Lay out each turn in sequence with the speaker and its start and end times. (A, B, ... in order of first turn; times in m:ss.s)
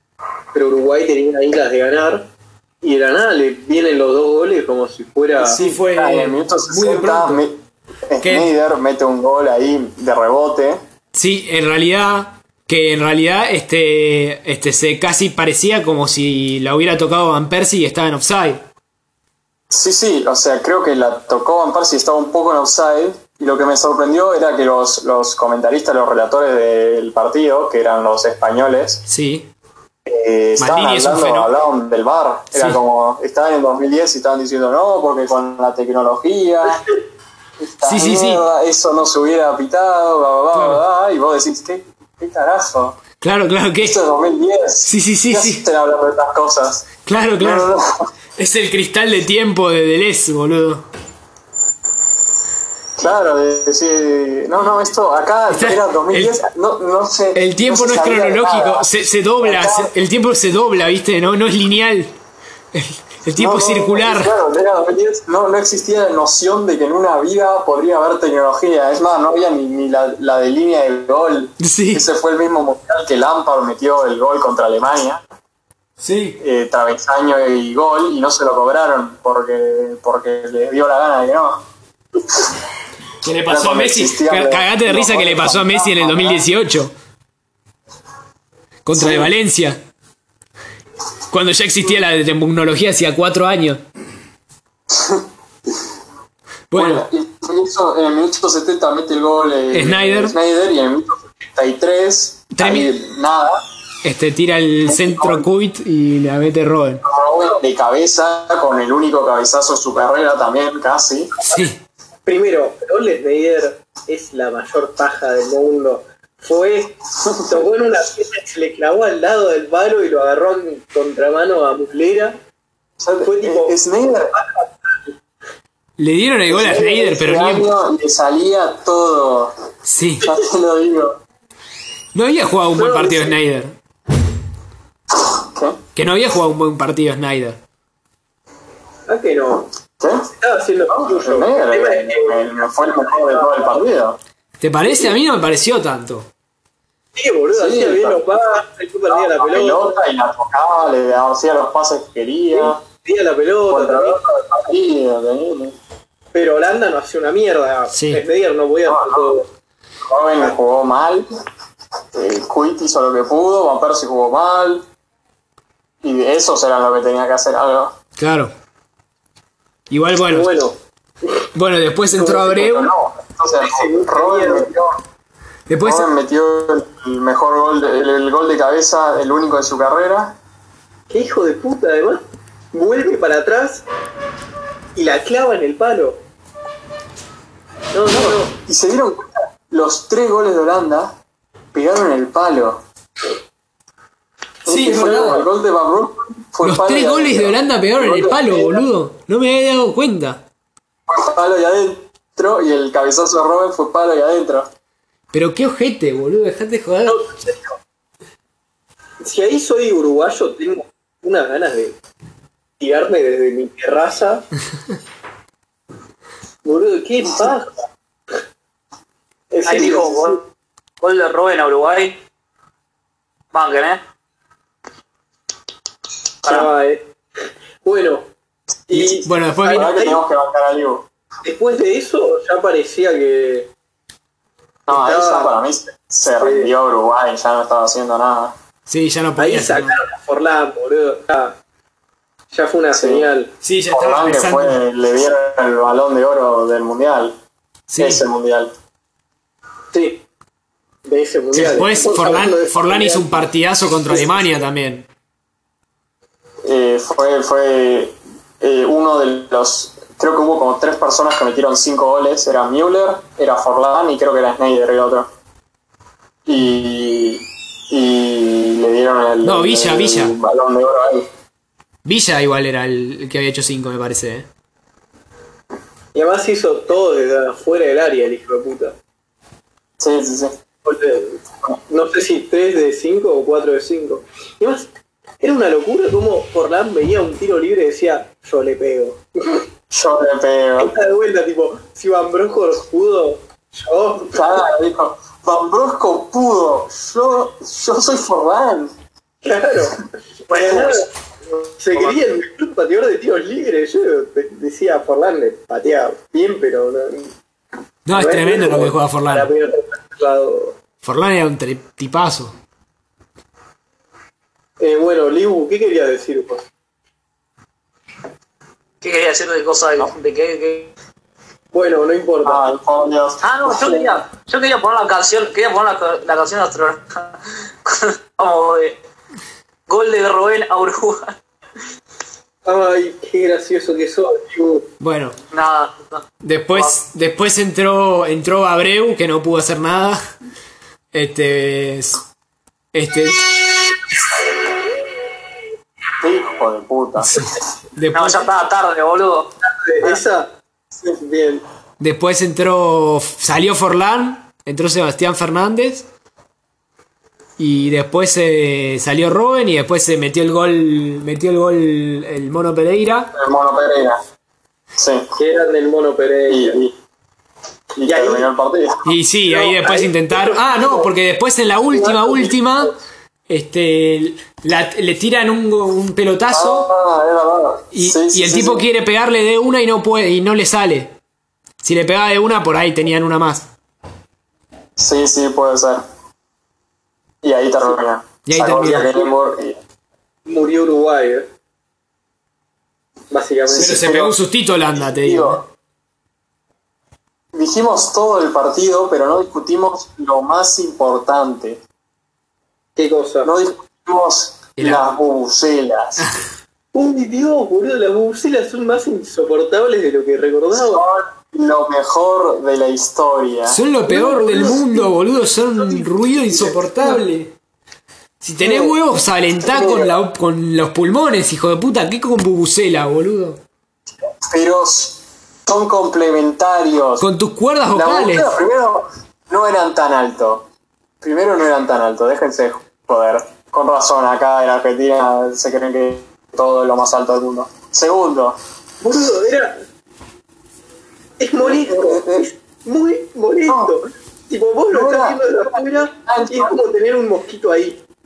0:00.5-0:02.3 A
0:02.8-0:05.6 A
0:05.4-0:07.4 B
0:05.4-0:10.8 C
0:08.2-0:08.5 B
0:11.1-0:18.6 B
0:19.7-0:29.0 C
0:29.1-0:29.5 B
0:30.0-0:36.8 C
0:30.6-0:31.5 B
0:32.5-0:32.8 B
0:37.6-0:43.0 C
0:37.8-0:38.4 B
0:40.5-0:40.8 B
0:43.2-0:44.0 B
0:43.8-0:48.0 C
0:44.8-0:45.6 B
0:47.0-0:47.7 B
0:48.4-0:50.8 B
0:53.0-0:59.9 C
0:55.5-0:56.4 B
0:57.3-1:02.1 B
1:02.7-1:04.3 B
1:03.4-1:15.2 C
1:11.6-1:12.1 B
1:16.0-1:16.4 B
1:16.4-1:21.6 C
1:23.2-1:26.9 B
1:23.5-1:26.4 C
1:28.8-1:29.8 B
1:28.9-1:29.3 C
1:31.3-1:33.8 B
1:34.9-1:35.2 C
1:36.7-1:37.0 B
1:36.7-1:43.6 C
1:39.7-1:40.4 B
1:42.5-1:42.9 B
1:44.0-1:47.0 B
1:44.9-1:45.4 C
1:47.0-1:51.3 C
1:51.4-1:51.8 B
1:52.2-2:02.4 A
2:03.0-2:04.3 C
2:03.2-2:03.8 A
2:04.3-2:05.1 A
2:06.0-2:07.7 B
2:06.5-2:09.5 C
2:09.8-2:10.3 B
2:10.2-2:11.2 C
2:12.1-2:13.8 B
2:12.7-2:13.4 A
2:15.2-2:15.8 C
2:15.9-2:17.6 B
2:19.1-2:19.7 A
2:20.0-2:20.3 C
2:20.3-2:23.8 A
2:20.9-2:24.2 C
2:24.6-2:26.3 B
2:27.1-2:29.9 A
2:27.5-2:28.2 C
2:29.1-2:32.8 C
2:32.5-2:34.2 A
2:33.7-2:35.8 C
2:36.3-2:39.5 A
2:37.9-2:38.2 B
2:38.8-2:39.3 C
2:40.0-2:41.3 C
2:42.1-2:44.8 C
2:46.0-2:48.0 C
2:48.2-2:48.5 B
2:49.9-2:50.5 B
2:50.3-2:51.4 A
2:51.5-2:52.9 B
2:52.2-2:52.4 A
2:52.3-2:55.0 C
2:53.6-2:54.7 A
2:55.7-2:56.1 B
2:55.8-3:00.4 C
3:01.1-3:03.8 A
3:04.9-3:06.2 A
3:07.9-3:08.5 A
3:08.1-3:11.1 C
3:11.7-3:12.8 C
3:14.6-3:18.3 C
3:14.7-3:15.4 B
3:14.9-3:15.4 A
3:16.6-3:20.4 B
3:18.1-3:18.8 A
3:21.1-3:24.7 C
3:25.3-3:27.2 B
3:27.0-3:27.8 A
3:29.2-3:32.0 A
3:32.8-3:34.5 A
3:36.6-3:37.8 A
3:39.5-3:40.4 A
3:39.6-3:40.4 D
3:41.0-3:42.2 D
3:43.5-3:44.0 D
3:46.4-3:47.0 A
3:47.8-3:48.3 A
3:48.9-3:50.2 A
3:48.9-3:49.9 B
3:49.7-3:51.0 C
3:51.4-3:53.7 A
3:54.9-3:58.5 C
3:54.9-3:55.5 A
3:56.3-3:56.7 A
3:58.9-4:00.0 B
3:59.4-4:01.6 A
4:02.5-4:03.5 A
4:02.9-4:03.3 C
4:03.6-4:04.8 B
4:03.9-4:07.3 C
4:07.9-4:08.2 B
4:08.0-4:08.7 C
4:09.9-4:10.2 A
4:11.0-4:13.4 A
4:11.5-4:15.1 B
4:14.1-4:14.5 A
4:16.6-4:25.3 C
4:26.4-4:31.3 C
4:29.4-4:30.4 B
4:32.0-4:34.5 B
4:36.1-4:39.0 A
4:40.0-4:40.6 C
4:40.8-4:49.6 A
4:49.9-4:50.9 C
4:50.8-4:54.4 A
4:54.3-4:58.9 C
4:59.4-5:01.0 A
5:00.5-5:01.1 D
5:01.8-5:07.3 A
5:01.9-5:02.2 D
5:08.0-5:09.5 B
5:08.1-5:10.8 A
5:11.0-5:12.5 B
5:14.8-5:16.7 A
5:19.0-5:20.9 D
5:21.7-5:22.6 A
5:22.4-5:24.2 C
5:23.4-5:29.0 D
5:29.9-5:31.3 D
5:32.6-5:34.9 A
5:35.0-5:35.4 B
5:35.5-5:36.9 D
5:36.4-5:40.2 B
5:41.1-5:42.2 B
5:42.9-5:43.5 B
5:46.2-5:47.4 C
5:47.2-5:48.5 B
5:48.1-5:49.5 D
5:49.6-5:51.6 A
5:52.0-5:56.1 B
5:57.6-6:03.3 B
6:03.3-6:04.2 C
6:05.0-6:05.3 C
6:05.4-6:06.8 A
6:06.5-6:06.9 C
6:07.9-6:09.1 C
6:08.0-6:08.5 A
6:09.0-6:13.0 B
6:09.5-6:11.1 A
6:11.9-6:13.0 A
6:13.5-6:16.9 B
6:16.5-6:18.8 C
6:17.9-6:21.2 B
6:21.8-6:23.7 B
6:25.0-6:26.0 C
6:27.4-6:29.8 C
6:28.4-6:29.2 B
6:30.4-6:31.5 A
6:33.3-6:34.0 A
6:33.7-6:34.3 C
6:33.8-6:35.6 B
6:34.9-6:35.6 C
6:37.5-6:41.8 C
6:43.0-6:43.5 A
6:43.4-6:46.2 C
6:44.8-6:45.1 B
6:46.9-6:51.0 A
6:50.7-6:53.8 C
6:53.7-6:57.5 B
6:54.1-6:55.1 A
6:55.8-6:57.2 A
6:58.4-7:03.6 B
6:58.6-6:59.0 A
6:59.6-7:00.1 A
7:04.5-7:07.3 C
7:07.2-7:08.6 B
7:07.9-7:10.7 C
7:11.2-7:18.6 C
7:19.0-7:19.8 A
7:21.4-7:28.0 A
7:21.6-7:22.5 C
7:23.7-7:23.9 C
7:24.9-7:26.8 C